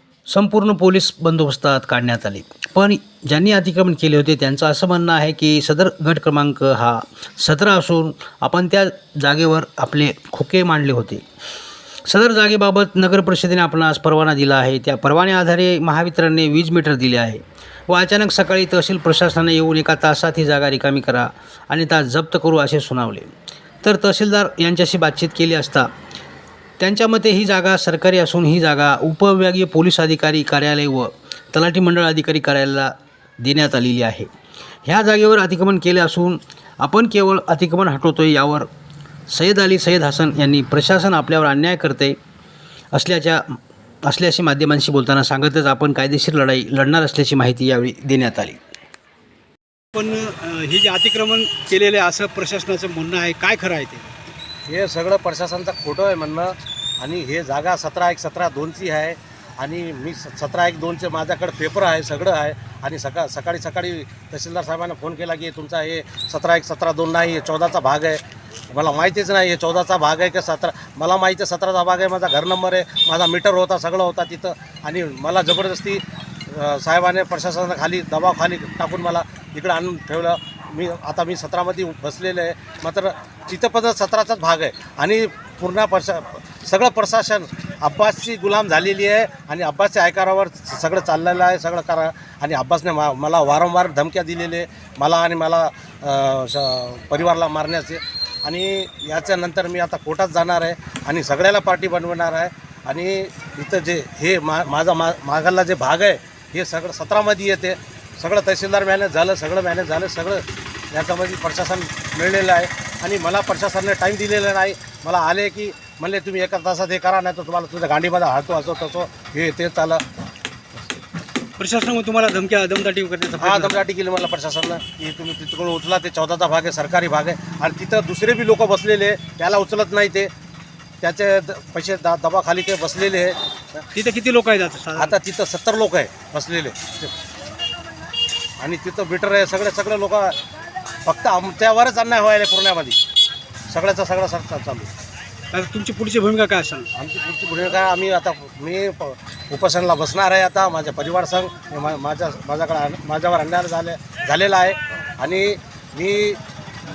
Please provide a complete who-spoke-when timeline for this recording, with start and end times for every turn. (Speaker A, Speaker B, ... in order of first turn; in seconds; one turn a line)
Speaker A: 0.3-11.2
Speaker A: 12.1-23.3
Speaker A: 23.8-25.9
Speaker A: 26.8-34.3
Speaker A: 34.8-38.7
Speaker A: 39.3-42.2
Speaker A: 42.9-48.6
Speaker B: 49.9-54.1
Speaker C: 54.7-120.0
Speaker B: 121.6-123.8
Speaker C: 123.4-130.3
Speaker C: 131.0-133.8
Speaker B: 133.9-135.2
Speaker C: 134.9-137.1
Speaker C: 138.6-140.3
Speaker C: 141.0-143.0
Speaker C: 143.7-144.9
Speaker B: 145.5-146.9
Speaker C: 146.9-156.4